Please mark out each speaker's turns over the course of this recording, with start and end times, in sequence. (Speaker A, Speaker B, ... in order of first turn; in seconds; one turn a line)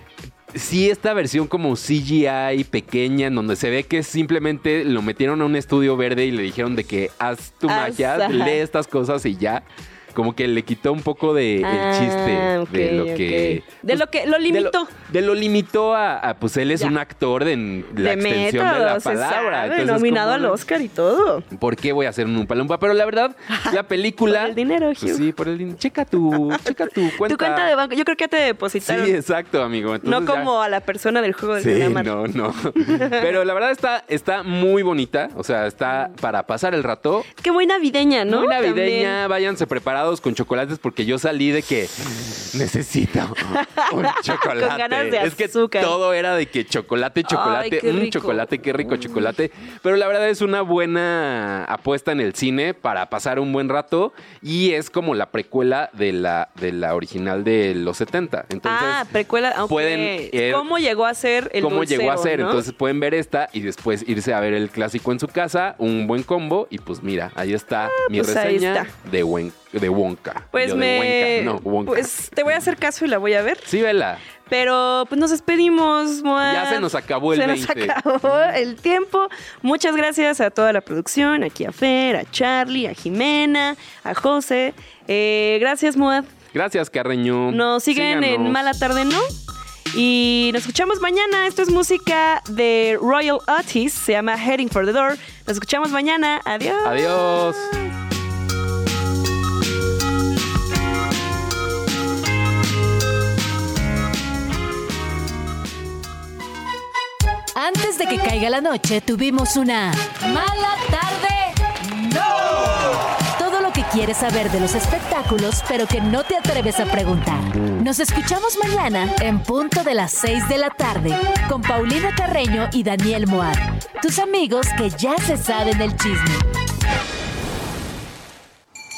Speaker A: 0.5-20.6
Speaker B: 7.7-8.6
Speaker B: 11.6-14.9
Speaker B: 18.0-21.4
Speaker A: 21.5-27.7
Speaker B: 23.5-25.3
Speaker B: 26.6-29.1
Speaker A: 28.8-30.5
Speaker B: 30.0-32.1
Speaker A: 31.6-37.3
Speaker B: 32.9-33.3
Speaker B: 37.4-39.2
Speaker A: 38.3-59.1
Speaker B: 43.5-46.0
Speaker B: 47.2-48.5
Speaker B: 58.6-62.6
Speaker A: 59.7-60.7
Speaker A: 61.6-72.5
Speaker B: 67.9-68.9
Speaker B: 70.5-73.7
Speaker A: 73.7-74.2
Speaker B: 74.4-86.3
Speaker A: 76.4-78.0
Speaker A: 86.5-88.7
Speaker B: 87.5-89.3
Speaker B: 89.9-97.1
Speaker A: 96.8-97.7
Speaker C: 107.6-126.5